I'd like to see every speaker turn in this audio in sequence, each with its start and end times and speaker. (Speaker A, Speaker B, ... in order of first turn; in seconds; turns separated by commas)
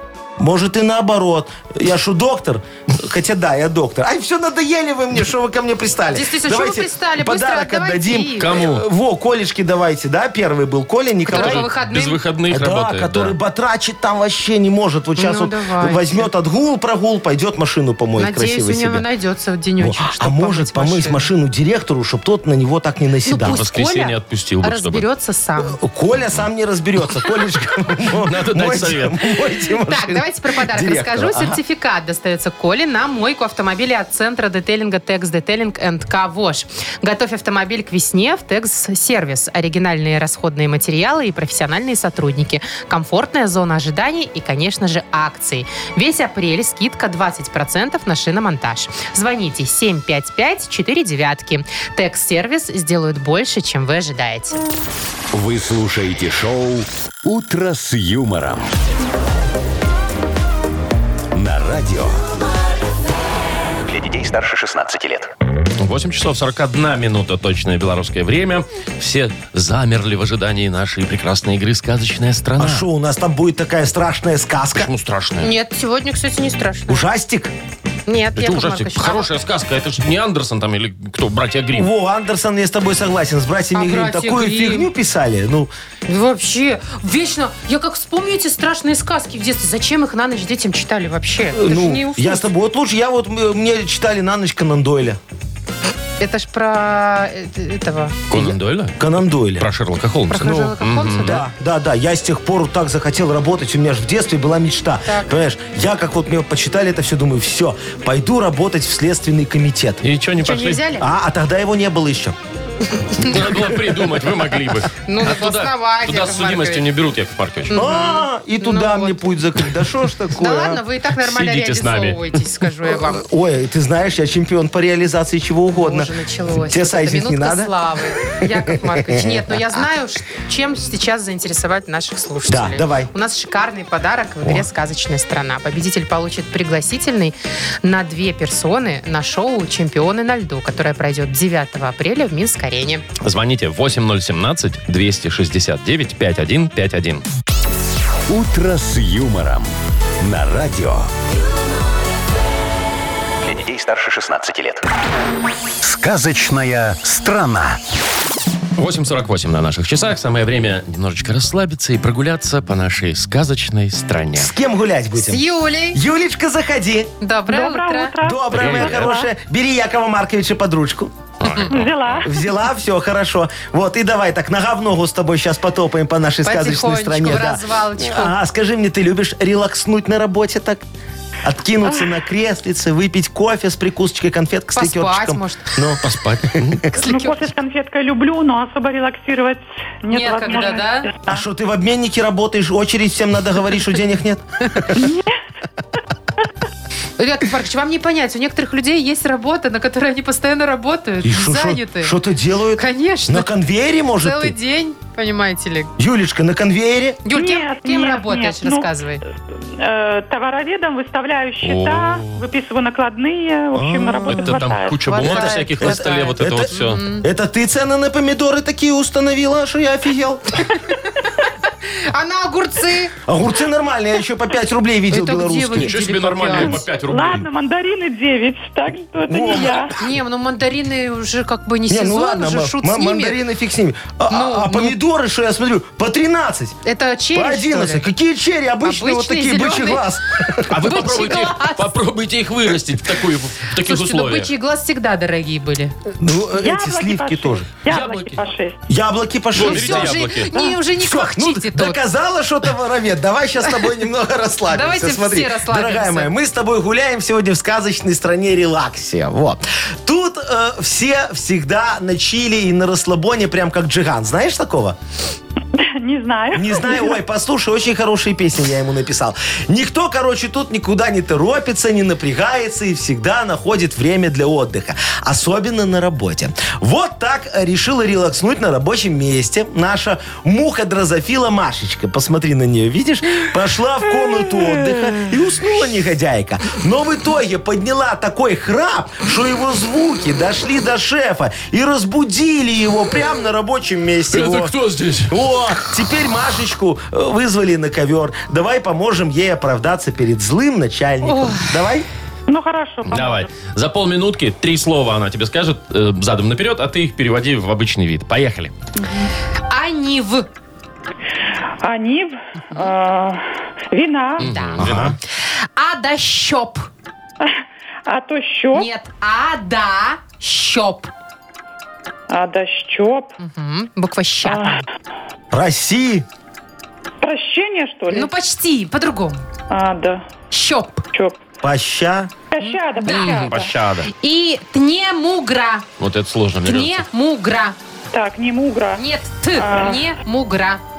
Speaker A: 0.4-11.7, Speaker B: 6.1-8.5, Speaker C: 8.4-8.8, Speaker B: 11.2-12.2, Speaker C: 11.3-13.3, Speaker A: 12.5-19.1, Speaker B: 15.2-16.3, Speaker B: 18.2-21.3, Speaker A: 19.8-23.6, Speaker B: 23.2-25.8, Speaker C: 23.4-25.1, Speaker A: 25.6-31.6, Speaker C: 28.2-29.2, Speaker B: 29.9-54.6, Speaker D: 55.3-58.7, Speaker D: 61.3-62.2, Speaker E: 63.9-65.3, Speaker C: 65.8-72.9, Speaker A: 72.6-74.9, Speaker C: 74.8-75.5, Speaker B: 75.4-77.1, Speaker A: 76.9-77.5, Speaker B: 78.1-79.3, Speaker C: 78.4-81.9, Speaker A: 81.7-85.7, Speaker B: 83.7-84.9, Speaker B: 86.1-92.5, Speaker A: 91.5-95.2, Speaker B: 96.2-98.2, Speaker C: 98.3-99.0, Speaker A: 98.3-99.7, Speaker C: 99.6-101.4, Speaker B: 100.3-101.5, Speaker A: 101.2-110.0, Speaker B: 105.0-105.3, Speaker C: 110.0-110.8, Speaker B: 110.4-111.1, Speaker A: 111.0-112.4, Speaker B: 113.0-113.3, Speaker C: 113.2-117.8, Speaker B: 115.1-116.8, Speaker B: 117.7-119.2, Speaker A: 117.7-120.8, Speaker B: 120.4-123.2, Speaker C: 121.2-122.4, Speaker A: 123.0-127.7, Speaker B: 125.8-143.1, Speaker A: 128.2-129.6, Speaker A: 132.5-133.1, Speaker C: 143.2-147.2, Speaker D: 148.3-149.7, Speaker D: 150.2-151.1, Speaker E: 153.4-154.8, Speaker D: 155.8-157.8, Speaker C: 158.8-164.5, Speaker A: 164.3-167.1, Speaker B: 165.1-166.0, Speaker B: 167.2-168.2, Speaker F: 167.5-169.3, Speaker A: 168.2-171.1, Speaker C: 168.5-169.1, Speaker C: 171.4-172.2, Speaker F: 171.7-172.5, Speaker A: 172.2-180.8, Speaker B: 176.4-178.3, Speaker A: 181.4-186.9, Speaker B: 184.8-185.8, Speaker C: 186.0-186.8, Speaker B: 187.0-187.4, Speaker F: 187.0-191.4, Speaker B: 190.1-191.1, Speaker A: 191.3-195.1, Speaker F: 194.9-195.3, Speaker B: 197.2-202.2, Speaker A: 201.2-204.6, Speaker B: 202.8-203.5, Speaker B: 204.2-205.9, Speaker A: 206.0-207.2, Speaker B: 207.2-209.2, Speaker F: 207.3-208.9, Speaker F: 209.7-215.1, Speaker C: 211.6-212.4, Speaker A: 213.7-214.4, Speaker C: 214.3-217.0, Speaker B: 214.3-217.3, Speaker A: 215.2-220.7, Speaker B: 221.9-223.1, Speaker A: 223.2-225.9, Speaker B: 225.1-226.8, Speaker C: 225.8-227.5, Speaker F: 226.6-230.0, Speaker A: 229.3-229.9, Speaker B: 229.9-233.4, Speaker A: 231.9-236.8, Speaker B: 234.3-235.0, Speaker B: 236.8-238.1, Speaker A: 237.3-240.7, Speaker B: 238.8-240.1, Speaker C: 240.7-244.5, Speaker B: 240.8-241.9, Speaker B: 243.8-245.9, Speaker A: 246.2-247.7, Speaker F: 246.5-248.8, Speaker C: 247.9-248.4, Speaker A: 248.9-250.3, Speaker C: 249.6-250.5, Speaker B: 249.6-252.0, Speaker A: 250.9-265.0, Speaker B: 254.7-256.3, Speaker F: 265.8-267.2, Speaker A: 266.5-294.7, Speaker C: 294.3-295.4, Speaker A: 295.3-302.1, Speaker B: 301.2-301.8, Speaker F: 302.5-303.5, Speaker C: 303.1-308.7, Speaker B: 309.7-310.5, Speaker F: 311.8-314.5, Speaker B: 314.4-314.9, Speaker C: 314.4-315.2, Speaker A: 314.8-315.2, Speaker B: 315.8-316.9, Speaker F: 318.1-318.9, Speaker B: 318.7-321.1, Speaker F: 322.3-323.4, Speaker B: 323.4-324.8, Speaker F: 324.5-324.8, Speaker A: 325.5-326.3, Speaker F: 327.2-328.3, Speaker B: 328.1-329.4, Speaker F: 329.7-330.2, Speaker B: 330.5-331.0, Speaker F: 331.1-331.4, Speaker A: 331.6-332.3, Speaker F: 332.5-333.8, Speaker B: 332.6-333.6, Speaker C: 333.1-334.1, Speaker B: 334.1-335.9, Speaker C: 336.0-337.1, Speaker B: 336.6-337.8, Speaker F: 338.1-339.0, Speaker B: 339.0-340.8, Speaker F: 339.5-340.1